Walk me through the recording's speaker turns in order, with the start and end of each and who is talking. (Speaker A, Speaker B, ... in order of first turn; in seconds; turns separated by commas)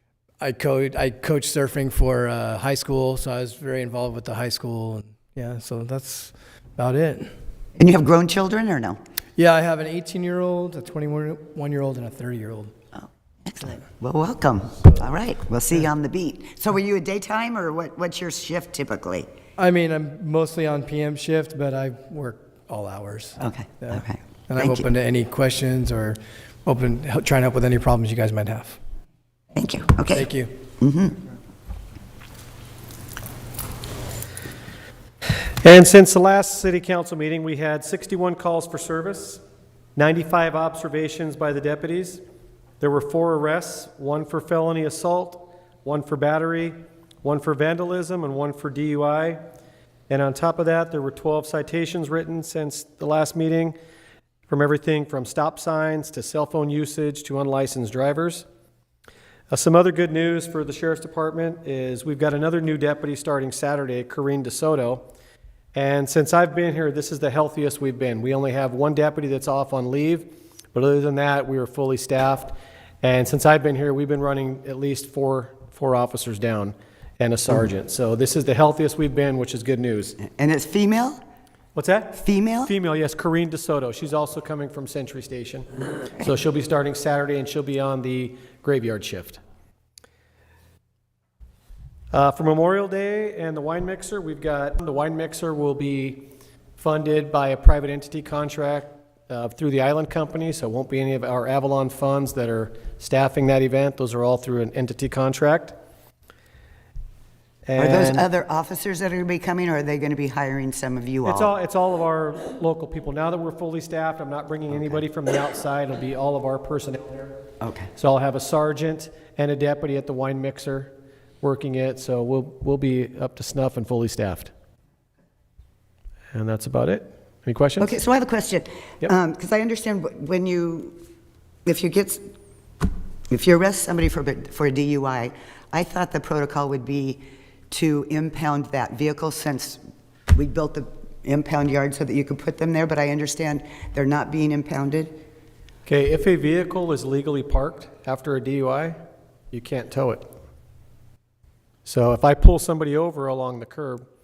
Speaker A: 0.4-7.3, Speaker B: 7.8-9.0, Speaker A: 9.4-12.7, Speaker B: 13.0-19.3, Speaker A: 19.6-28.8, Speaker B: 23.4-24.8, Speaker B: 29.5-30.3, Speaker A: 30.1-30.5, Speaker B: 30.8-31.2, Speaker C: 35.6-39.4, Speaker C: 40.0-42.2, Speaker C: 42.8-49.4, Speaker C: 50.1-53.7, Speaker C: 54.5-58.5, Speaker C: 59.5-65.1, Speaker C: 65.7-80.2, Speaker B: 80.2-81.2, Speaker C: 81.7-85.7, Speaker B: 82.1-82.7, Speaker C: 86.2-89.4, Speaker C: 92.1-105.7, Speaker C: 107.7-108.3, Speaker B: 107.8-111.5, Speaker C: 111.2-117.3, Speaker B: 114.7-115.0, Speaker B: 117.6-117.9, Speaker C: 118.0-124.5, Speaker C: 126.3-128.0, Speaker B: 127.8-130.9, Speaker B: 131.7-132.2, Speaker B: 133.3-139.8, Speaker B: 140.3-145.1, Speaker C: 145.8-149.0, Speaker C: 149.5-150.3, Speaker C: 151.8-154.0